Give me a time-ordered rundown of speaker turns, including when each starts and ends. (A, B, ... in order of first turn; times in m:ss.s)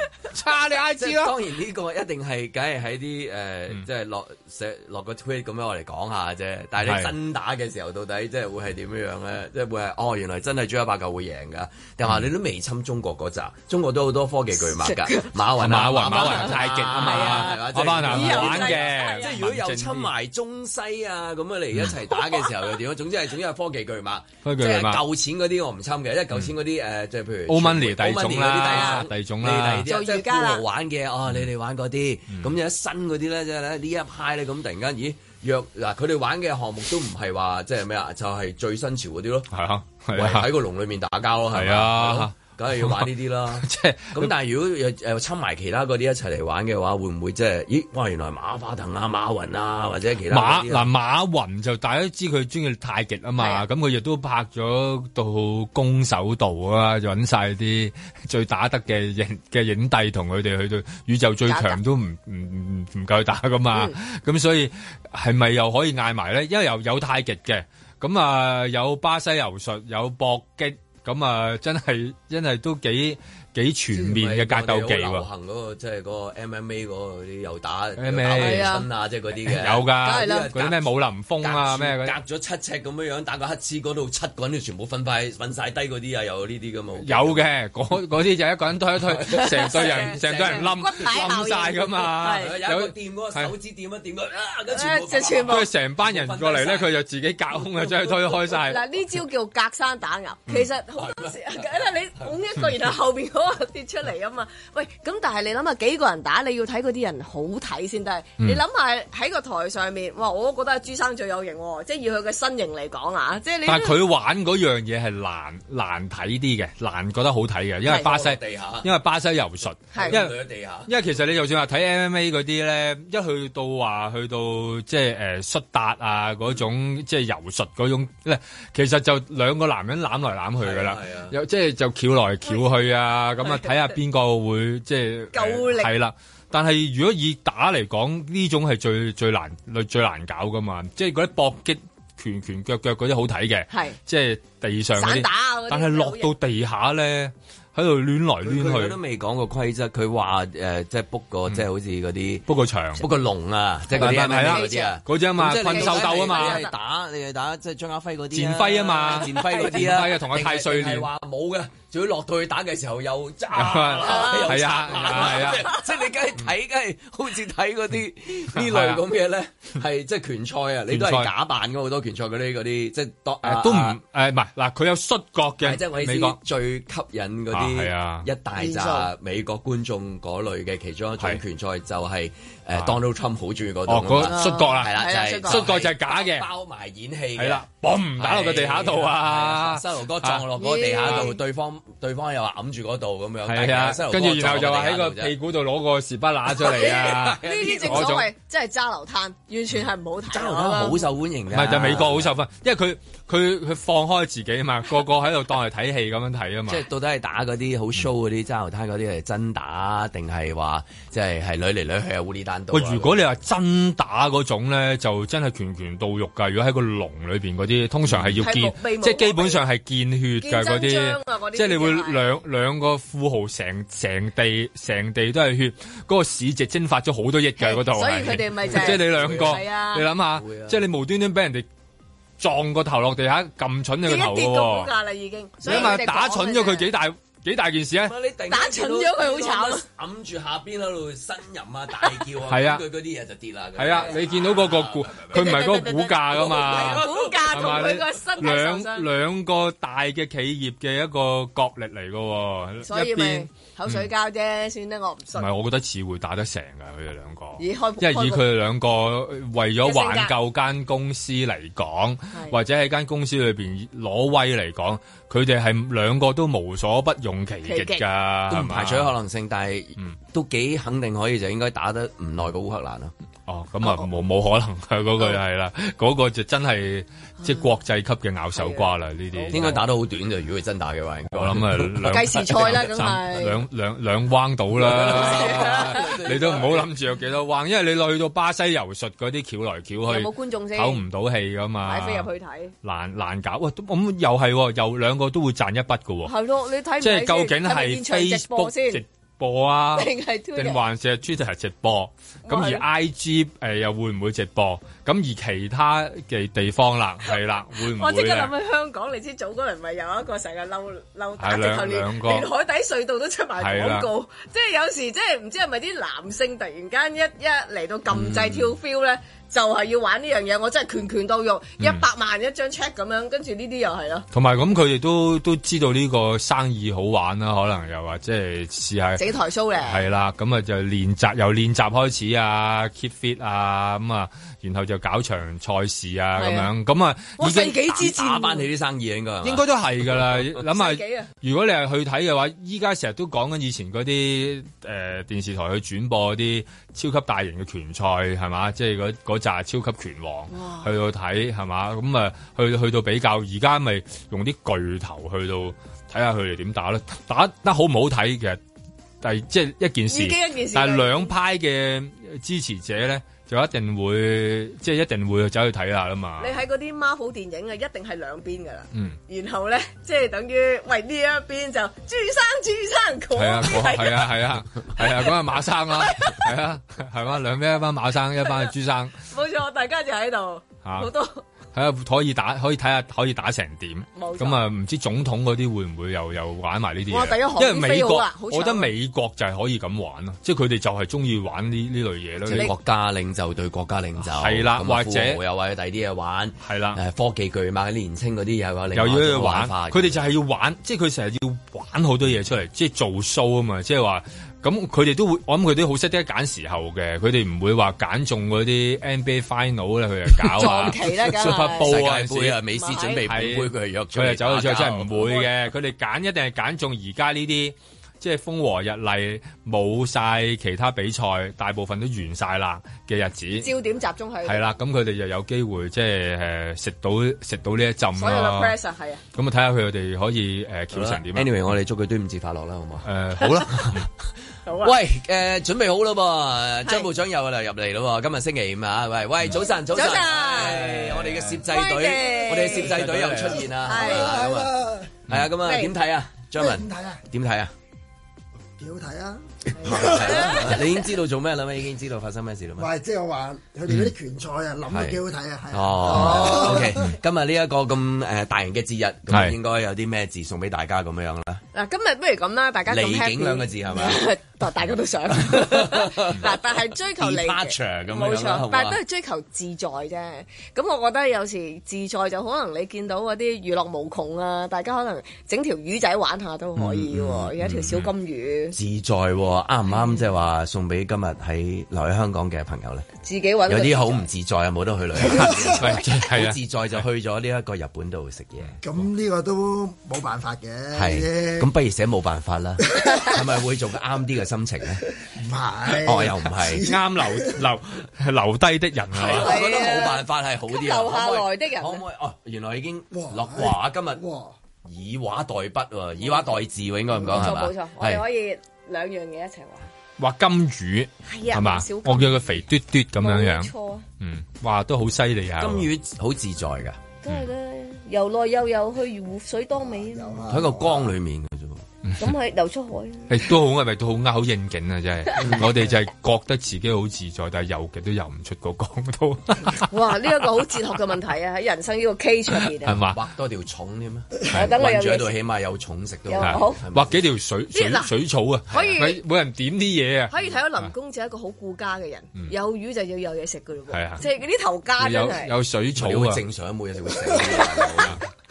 0:00.3-0:01.3 A
0:01.0-0:39.5 B
0:06.8-0:07.1 A
0:14.8-0:15.3 C
0:15.6-0:20.1 A
0:16.1-0:19.3 C
0:24.4-0:25.0 A
0:27.5-0:29.9 A
0:29.9-0:30.6 C
0:39.5-0:40.5 A
0:40.1-0:50.9 B
0:41.5-0:43.1 A
0:43.6-0:44.3 A
0:50.3-1:15.2 A
0:53.4-0:53.6 C
1:01.5-1:01.8 C
1:13.9-1:27.4 B
1:18.0-1:18.8 A
1:18.3-1:18.9 C
1:19.5-1:22.2 A
1:20.0-1:20.5 C
1:27.0-1:33.5 A
1:29.0-1:30.9 B
1:29.3-1:32.6 C
1:32.2-1:36.9 B
1:34.7-1:35.7 C
1:35.4-1:38.8 A
1:37.8-1:38.2 B
1:38.6-1:54.0 C
1:41.0-1:41.6 B
1:53.6-2:29.0 A
1:57.9-1:58.9 B
1:59.9-2:00.2 C
2:00.0-2:00.9 B
2:10.6-2:11.3 B
2:13.4-2:13.7 C
2:15.3-2:15.9 C
2:23.7-2:24.0 C
2:25.0-2:26.3 C
2:28.4-2:32.4 B
2:32.5-2:33.0 A
2:33.0-2:54.0 B
2:33.9-2:36.6 A
2:34.0-2:35.0 C
2:35.6-2:36.7 C
2:38.3-2:41.1 A
2:39.3-2:39.7 C
2:43.5-2:45.7 A
2:44.0-2:45.5 C
2:48.6-2:49.0 A
2:50.9-2:51.3 A
2:53.4-2:56.4 A
2:55.6-3:07.6 B
2:57.5-2:58.3 A
2:58.6-2:59.1 C
3:03.9-3:04.9 A
3:04.2-3:05.6 C
3:05.4-3:06.5 A
3:07.4-3:10.5 A
3:08.2-3:15.3 B
3:10.6-3:11.4 C
3:13.4-3:18.3 A
3:16.5-3:18.2 B
3:17.4-3:21.0 C
3:20.3-3:22.3 B
3:21.5-3:26.8 A
3:26.7-3:33.2 B
3:32.7-3:51.6 A
3:38.1-3:38.4 B
3:38.4-3:39.6 C
3:40.4-3:42.2 C
3:47.6-3:50.0 C
3:48.6-3:49.6 B
3:50.3-3:50.8 B
3:52.4-3:54.9 A
3:54.0-3:56.9 C
3:55.6-3:58.1 A
3:55.7-3:56.0 B
3:58.0-4:05.6 B
3:58.5-3:59.8 C
4:02.5-4:02.8 A
4:03.8-4:14.1 A
4:05.3-4:09.1 C
4:06.3-4:08.0 B
4:12.8-4:15.5 C
4:15.4-4:29.1 A
4:17.6-4:18.4 C
4:19.8-4:20.3 C
4:27.6-4:28.0 C
4:28.5-4:33.1 B
4:33.5-4:39.8 A
4:38.6-4:39.5 C
4:39.5-4:42.0 B
4:41.3-4:52.3 A
4:42.0-4:43.6 C
4:44.7-4:46.9 B
4:45.1-4:46.1 C
4:50.0-4:51.0 C
4:51.8-4:52.7 C
4:52.8-4:56.3 A
4:56.2-4:59.0 C
4:57.0-5:08.5 A
5:00.0-5:00.8 C
5:02.4-5:02.8 C
5:07.3-5:24.2 C
5:11.4-5:12.5 A
5:13.6-5:14.1 A
5:18.1-5:18.7 B
5:21.8-5:22.0 A
5:24.3-5:29.2 A
5:29.2-5:30.0 C
5:29.8-5:37.9 A
5:36.4-5:36.7 C
5:37.4-5:38.7 C
5:37.9-5:40.4 B
5:39.4-5:58.6 A
5:40.6-5:41.3 C
5:50.5-5:50.9 C
5:59.2-6:06.6 A
6:00.1-6:01.3 C
6:06.4-6:14.3 C
6:08.9-6:09.2 A
6:13.3-6:19.1 A
6:16.0-6:16.4 C
6:18.4-6:18.7 C
6:19.3-6:21.4 C
6:20.8-6:21.1 A
6:21.7-6:32.7 A
6:24.2-6:24.6 C
6:27.1-6:28.9 C
6:32.5-6:40.2 B
6:34.2-6:35.4 A
6:36.6-6:37.0 A
6:38.9-6:52.6 A
6:50.6-6:52.0 C
6:51.5-6:55.4 B
6:52.7-6:53.2 C
6:53.2-7:03.7 A
6:55.2-6:55.5 C
7:03.6-7:04.7 C
7:04.4-7:08.7 A
7:08.2-7:09.2 C
7:09.3-7:11.7 A
7:10.9-7:14.1 B
7:13.0-7:14.1 A
7:14.6-7:14.9 C
7:14.8-7:27.7 B
7:16.8-7:17.1 C
7:19.7-7:21.0 C
7:21.6-7:24.4 C
7:22.7-7:25.1 D
7:25.6-7:25.9 C
7:26.6-7:27.2 D
7:28.8-7:30.8 D
7:29.7-7:32.9 B
7:29.8-7:30.8 C
7:32.8-7:37.0 D
7:34.9-7:35.2 B
7:35.7-7:41.6 B
7:36.2-7:36.8 C
7:39.3-7:39.6 A
7:41.7-7:58.8 C
7:42.9-7:44.2 B
7:45.4-7:49.0 B
7:56.8-7:57.5 B
7:57.6-7:58.1 A
7:58.7-8:03.1 B
8:03.2-8:04.2 C
8:03.6-8:08.8 B
8:05.3-8:05.8 D
8:05.4-8:06.6 A
8:08.8-8:11.7 D
8:10.9-8:15.0 B
8:13.0-8:13.3 C
8:15.3-8:17.6 D
8:16.0-8:16.9 B
8:16.8-8:19.6 A
8:19.1-8:24.2 B
8:19.3-8:22.0 C
8:23.1-8:24.6 D
8:24.8-8:28.2 B
8:26.2-8:26.6 C
8:27.2-8:29.9 C
8:30.2-8:35.9 A
8:31.2-8:32.6 C
8:33.2-8:34.0 C
8:35.6-8:37.0 B
8:37.2-8:40.4 C
8:39.8-8:41.1 D
8:40.5-8:41.8 B
8:42.0-8:42.3 A
8:42.2-8:43.3 C
8:43.3-8:49.9 A
8:45.4-8:45.7 B
8:49.9-8:52.9 C
8:52.8-8:53.2 A
8:53.1-8:57.2 B
8:54.5-8:55.3 C
8:56.3-8:56.8 C
8:56.4-9:00.9 A
8:57.7-8:58.1 C
8:58.7-8:59.2 C
9:00.3-9:05.5 C
9:03.9-9:04.2 A
9:05.0-9:06.4 A
9:05.9-9:08.2 B